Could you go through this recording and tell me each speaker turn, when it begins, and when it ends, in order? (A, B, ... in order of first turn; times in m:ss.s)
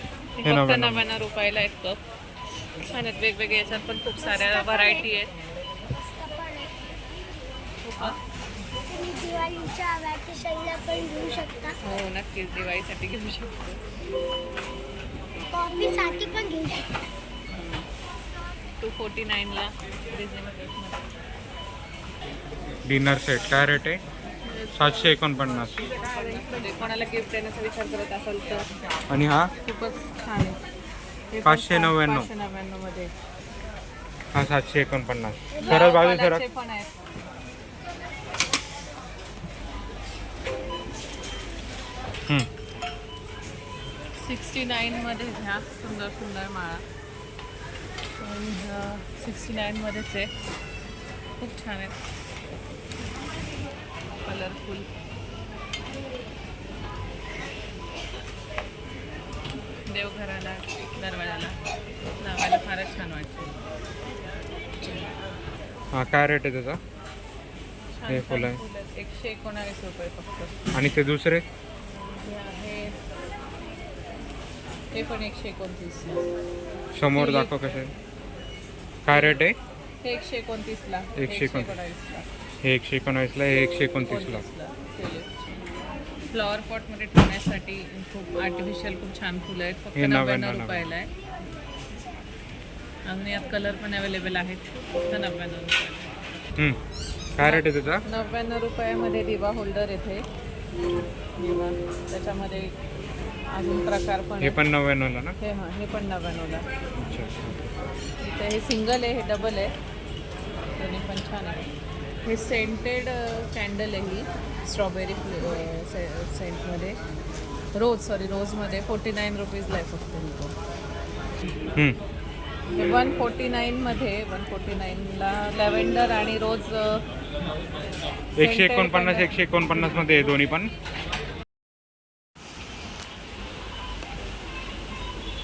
0:00.4-0:02.0 A
0:00.4-0:01.0 B
0:02.9-0:05.3 A
0:06.0-0:06.7 C
0:07.8-0:08.2 A
0:08.9-0:11.7 C
0:11.8-0:13.8 A
0:15.5-0:16.9 C
0:17.5-0:17.9 A
0:18.8-0:21.0 A
0:22.9-0:24.0 B
0:24.5-0:25.1 A
0:24.7-0:25.9 B
0:26.0-0:28.7 A
0:29.1-0:29.5 B
0:29.6-0:30.6 A
0:31.3-0:33.1 A
0:31.4-0:32.3 B
0:34.3-0:36.4 B
0:35.6-0:36.9 A
0:44.2-0:46.8 A
0:48.2-0:50.3 A
0:51.4-0:51.9 A
0:54.2-0:54.9 A
0:59.9-1:01.6 A
1:02.2-1:03.6 A
1:04.8-1:05.1 A
1:05.9-1:06.8 B
1:07.9-1:10.6 A
1:08.1-1:08.6 B
1:10.7-1:11.4 B
1:11.8-1:13.0 A
1:14.9-1:16.2 A
1:17.0-1:17.9 B
1:17.1-1:17.8 A
1:19.0-1:19.6 B
1:19.1-1:19.4 A
1:20.0-1:22.3 A
1:21.2-1:21.7 B
1:22.6-1:24.4 B
1:24.0-1:25.6 A
1:26.3-1:31.1 A
1:30.0-1:30.9 B
1:33.1-1:36.2 A
1:37.4-1:38.0 B
1:37.4-1:40.3 A
1:41.4-1:42.7 A
1:43.5-1:44.6 A
1:44.4-1:45.4 B
1:45.4-1:46.7 A
1:47.0-1:47.7 B
1:48.2-1:49.7 A
1:50.8-1:51.7 A
1:52.2-1:57.0 A
1:57.7-2:00.5 A
2:02.7-2:07.0 A
2:08.4-2:10.7 B
2:08.4-2:09.4 A